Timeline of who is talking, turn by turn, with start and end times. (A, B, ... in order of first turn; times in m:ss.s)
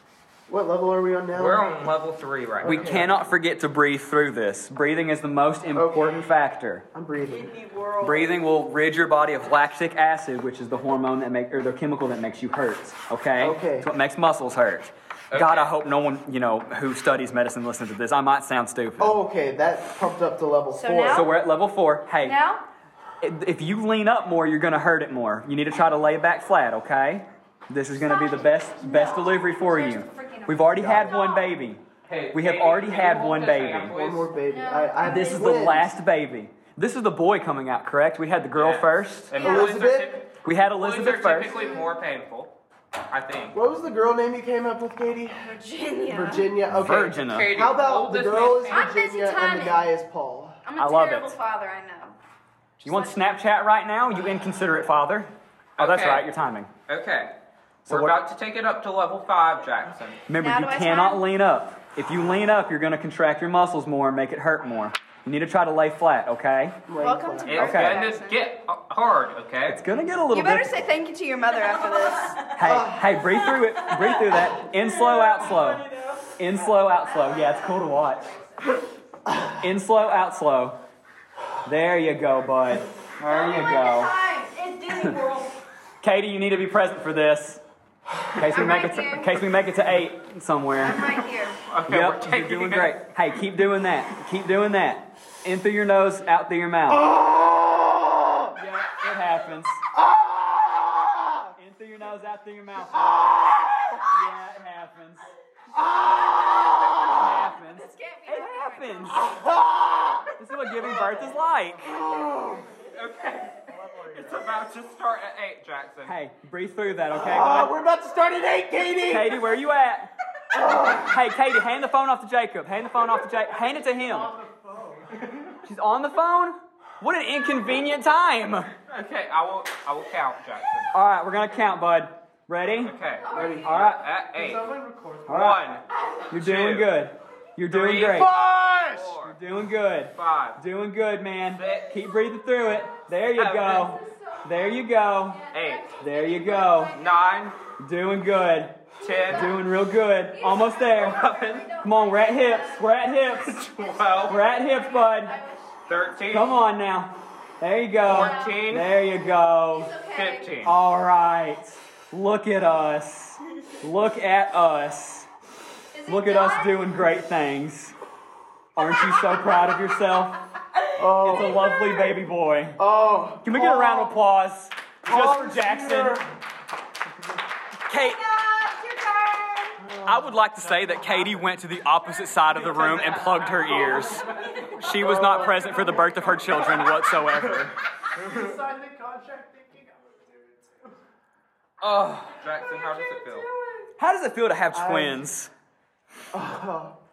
0:00.5-0:01.7 A
0:01.3-0:02.9 B
0:02.6-0:03.2 A
0:02.6-0:06.9 C
0:05.7-0:06.3 A
0:06.9-0:07.5 A
0:07.3-0:08.5 D
0:08.0-0:19.2 C
0:13.4-0:13.9 A
0:15.3-0:15.7 B
0:19.0-0:21.3 A
0:20.7-0:21.3 E
0:21.1-0:22.4 C
0:22.2-0:22.6 D
0:23.2-0:31.8 C
0:28.0-0:31.4 D
0:29.2-0:31.5 E
0:30.8-0:31.1 A
0:32.0-0:34.3 B
0:32.3-0:33.9 C
0:33.9-0:35.9 A
0:34.4-0:35.5 E
0:35.0-0:39.4 C
0:38.6-0:42.5 B
0:39.4-0:40.2 A
0:39.4-0:39.8 E
0:40.4-0:41.6 C
0:41.5-0:42.0 E
0:43.1-0:43.6 B
0:43.5-0:45.6 A
0:45.4-0:46.5 E
0:46.1-0:50.6 A
0:46.7-0:47.5 C
0:47.2-0:48.9 B
0:48.7-0:49.9 E
0:50.6-0:52.2 E
0:50.8-0:51.4 C
0:52.8-0:53.3 E
0:52.8-0:56.7 C
0:55.8-0:56.3 B
0:56.9-0:57.3 B
0:57.9-1:00.2 B
0:57.9-0:58.2 C
1:00.3-1:06.8 C
1:00.3-1:01.3 E
1:06.9-1:07.8 A
1:07.0-1:08.4 E
1:07.4-1:09.8 B
1:07.6-1:08.1 C
1:09.7-1:10.9 C
1:10.3-1:12.5 E
1:11.5-1:16.8 D
1:12.5-1:18.3 C
1:12.6-1:13.3 A
1:16.9-1:18.8 E
1:19.6-1:20.8 C
1:21.6-1:24.1 C
1:23.2-1:24.2 E
1:23.3-1:25.6 D
1:26.0-1:27.6 C
1:28.4-1:31.2 C
1:28.4-1:29.4 E
1:30.7-1:31.6 E
1:31.7-1:33.1 B
1:31.9-1:37.1 C
1:36.9-1:38.6 A
1:38.5-1:39.9 C
1:39.9-1:41.5 A
1:41.6-1:43.2 C
1:42.9-1:44.1 A
1:44.1-1:45.2 C
1:45.7-1:47.4 A
1:46.4-1:49.5 E
1:47.1-1:49.2 C
1:49.1-1:50.3 A
1:50.4-1:51.9 C
1:51.8-1:52.7 A
1:52.9-1:56.1 B
1:53.6-1:54.6 F
1:56.0-1:57.7 C
1:57.1-1:59.5 A
1:59.1-2:00.1 C
2:00.5-2:01.3 A
2:00.8-2:04.3 C
2:03.6-2:05.3 F
2:05.6-2:08.7 C
2:08.9-2:10.9 B
2:10.9-2:13.0 C
2:12.8-2:14.7 B
2:13.2-2:13.7 E
2:13.3-2:13.7 A
2:13.6-2:14.0 C
2:14.3-2:15.6 F
2:15.3-2:15.7 C
2:15.3-2:17.0 B
2:16.0-2:16.2 E
2:16.3-2:18.3 C
2:17.7-2:19.4 B
2:18.1-2:19.1 A
2:19.2-2:25.4 C
2:20.1-2:20.6 B
2:21.5-2:21.9 B
2:23.3-2:23.9 B
2:23.7-2:27.5 E
2:25.5-2:26.0 B
2:26.0-2:27.0 C
2:26.9-2:27.6 B
2:27.8-2:33.7 C
2:29.0-2:29.6 B
2:29.0-2:29.6 E
2:30.2-2:36.1 E
2:30.9-2:31.7 B
2:33.6-2:34.5 B
2:34.2-2:35.4 C
2:35.9-2:36.6 B
2:36.3-2:39.9 C
2:38.0-2:38.9 E
2:38.0-2:38.9 B
2:39.6-2:40.7 E
2:40.1-2:40.8 B
2:40.6-2:45.3 C
2:45.9-2:47.0 E
2:46.0-2:47.9 C
2:48.8-2:50.4 C
2:51.0-2:51.7 A
2:51.2-2:52.8 C
2:52.8-2:54.2 A
2:53.4-2:56.3 C
2:55.0-2:56.4 A
2:57.9-2:58.2 C
2:58.0-2:59.9 D
2:59.8-3:00.4 A
3:00.0-3:07.8 C
3:00.6-3:01.4 F
3:02.6-3:07.5 F
3:04.0-3:04.9 D
3:04.9-3:06.0 A
3:08.1-3:11.0 F
3:11.8-3:12.4 C
3:11.8-3:13.5 B
3:12.7-3:13.8 D
3:14.0-3:15.5 C
3:14.7-3:15.3 A
3:16.3-3:16.9 A